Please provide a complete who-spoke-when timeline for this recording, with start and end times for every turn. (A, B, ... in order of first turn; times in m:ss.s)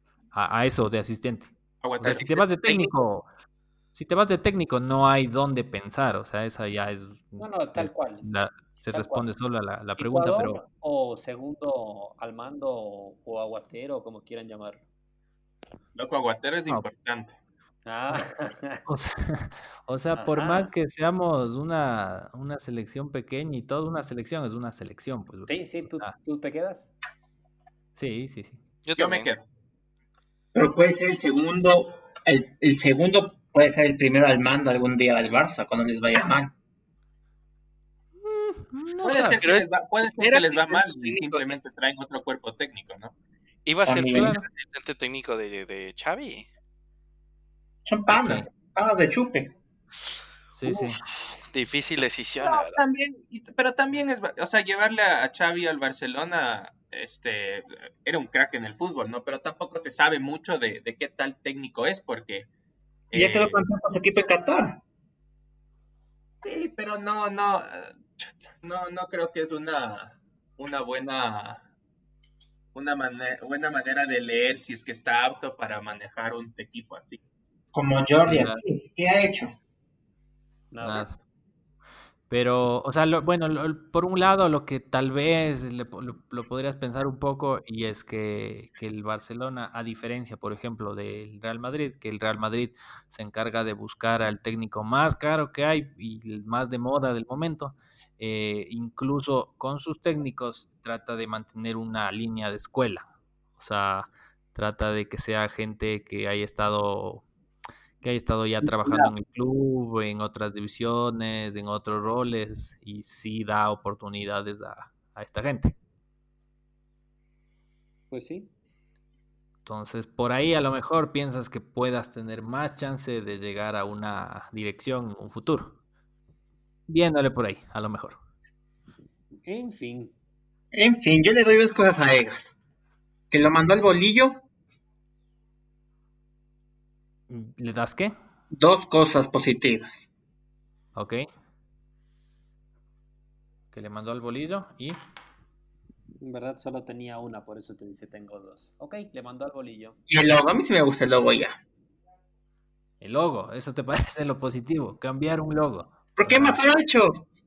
0:00.3-0:03.3 A
0:01.8-0:02.3 B
0:02.0-0:02.9 C
0:03.9-0:10.6 A
0:07.4-0:08.3 D
0:08.9-0:09.3 D
0:10.0-0:14.8 D
0:16.0-0:17.4 B
0:17.8-0:18.8 D
0:18.9-0:26.1 A
0:20.1-0:20.7 D
0:25.5-0:26.9 D
0:28.0-0:28.6 A
0:28.8-0:29.3 C
0:29.0-0:29.5 B
0:30.6-0:36.5 E
0:38.2-0:39.5 A
0:39.0-0:43.2 B
0:39.1-0:41.6 C
0:43.7-0:46.5 C
0:43.9-0:44.3 E
0:44.1-0:44.5 A
0:47.9-0:49.6 E
0:48.1-0:48.5 A
0:50.5-0:51.0 A
0:51.0-0:52.8 C
0:52.4-1:02.5 B
1:03.1-1:03.6 B
1:03.1-1:04.8 E
1:06.4-1:11.6 B
1:12.7-1:17.2 B
1:17.7-1:19.6 E
1:18.2-1:18.6 A
1:20.7-1:21.1 D
1:20.8-1:21.2 A
1:22.3-1:47.3 A
1:48.0-1:55.8 A
1:48.6-1:49.1 D
1:58.1-1:58.5 D
1:59.6-2:05.8 A
2:06.9-2:08.2 A
2:09.4-2:10.1 D
2:10.7-2:12.5 E
2:13.3-2:14.4 E
2:17.3-2:18.1 A
2:18.5-2:20.1 E
2:21.0-2:21.3 A
2:23.7-2:25.0 A
2:26.2-2:30.0 D
2:30.1-2:31.6 E
2:33.0-2:36.6 A
2:36.2-2:37.3 E